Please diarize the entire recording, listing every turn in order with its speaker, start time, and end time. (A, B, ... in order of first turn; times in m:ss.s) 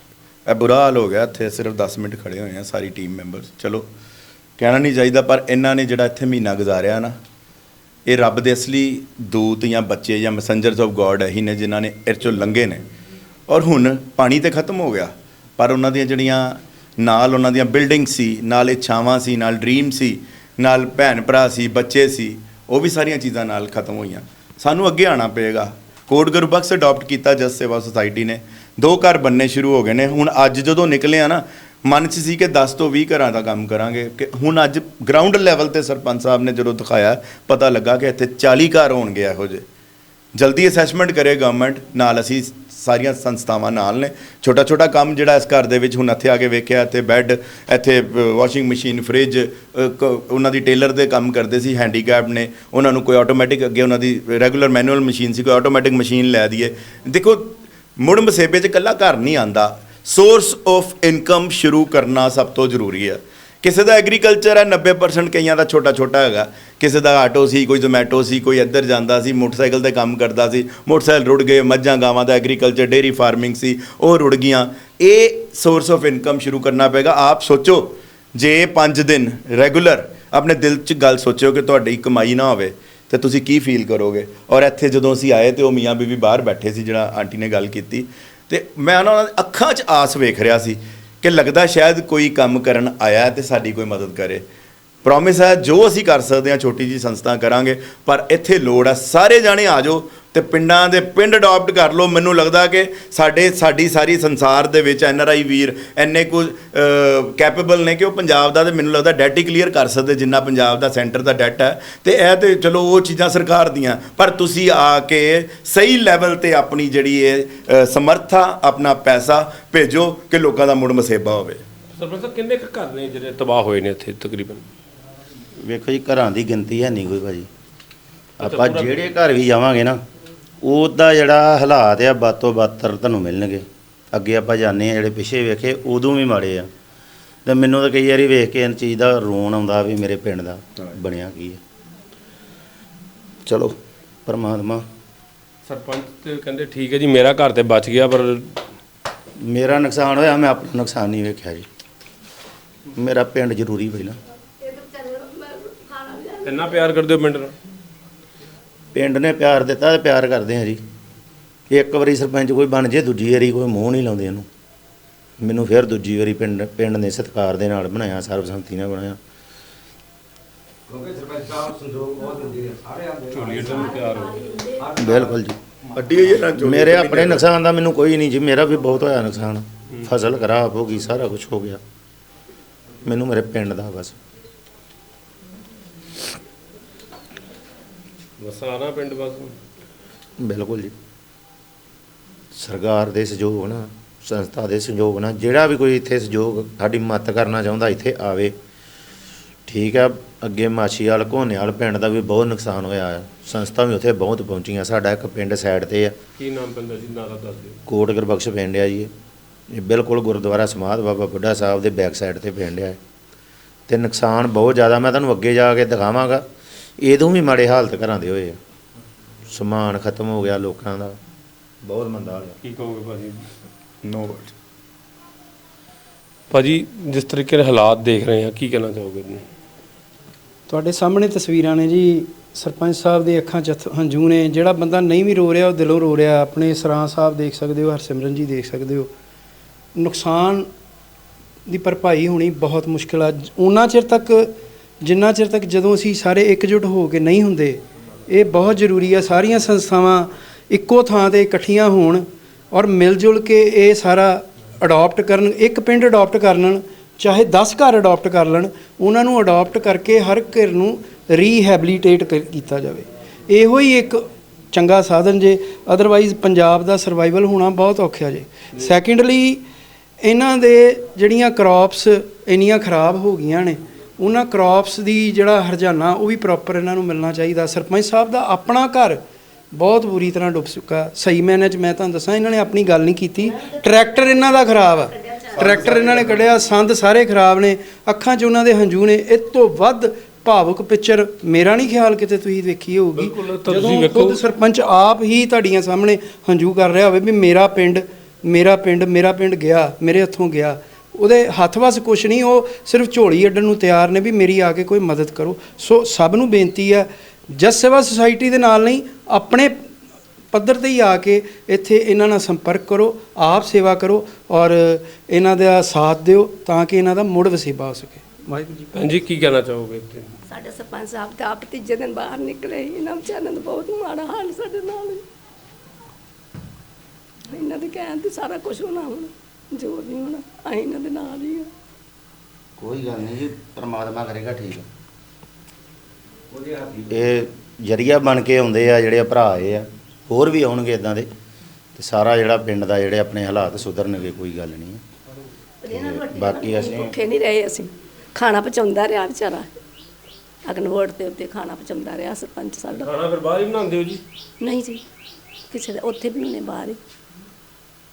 0:00.5-0:03.9 A
0:04.6-0:07.1 A
0:08.1-0:12.8 A
0:13.5-0:39.6 A
0:40.4-1:34.4 A
1:35.0-2:01.6 A
2:01.9-2:04.6 B
2:05.6-2:07.5 C
2:08.4-2:10.0 C
2:08.4-2:09.0 B
2:10.6-2:16.7 C
2:17.4-2:21.6 C
2:23.5-2:23.7 C
2:24.3-2:24.8 C
2:25.7-2:28.6 B
2:29.5-2:31.7 C
2:32.9-2:34.2 C
2:34.6-2:36.7 D
2:36.4-2:37.5 B
2:38.9-2:40.8 C
2:41.7-2:44.4 C
2:45.4-2:49.2 C
2:53.3-2:54.4 B
2:53.7-2:54.8 D
2:55.0-2:55.6 C
2:55.9-2:57.4 A
2:56.6-3:01.8 C
3:03.0-3:04.2 C
3:08.4-3:09.6 B
3:10.4-3:10.9 C
3:12.6-3:18.6 C
3:19.7-3:26.1 C
3:26.4-3:27.8 B
3:27.9-3:29.1 C
3:29.7-3:33.0 C
3:33.9-3:36.4 C
3:37.0-3:38.6 C
3:39.5-3:41.2 C
3:41.8-3:42.6 C
3:42.6-3:43.4 B
3:44.0-3:44.5 A
3:46.5-3:49.4 B
3:50.7-3:59.1 E
3:59.9-4:00.7 E
4:01.7-4:29.6 E
4:30.2-4:39.2 E
4:39.7-5:09.9 E
4:43.6-4:44.7 D
4:53.2-4:54.4 B
5:10.5-5:19.1 E
5:18.9-5:20.3 B
5:20.5-5:25.2 D
5:27.5-5:31.7 D
5:32.8-5:34.9 C
5:36.9-5:41.3 C
5:42.0-5:45.0 C
5:45.8-5:49.7 D
5:45.9-5:47.1 C
5:50.7-5:53.1 D
5:53.0-5:54.2 B
5:54.6-5:55.0 D
5:55.7-5:57.0 D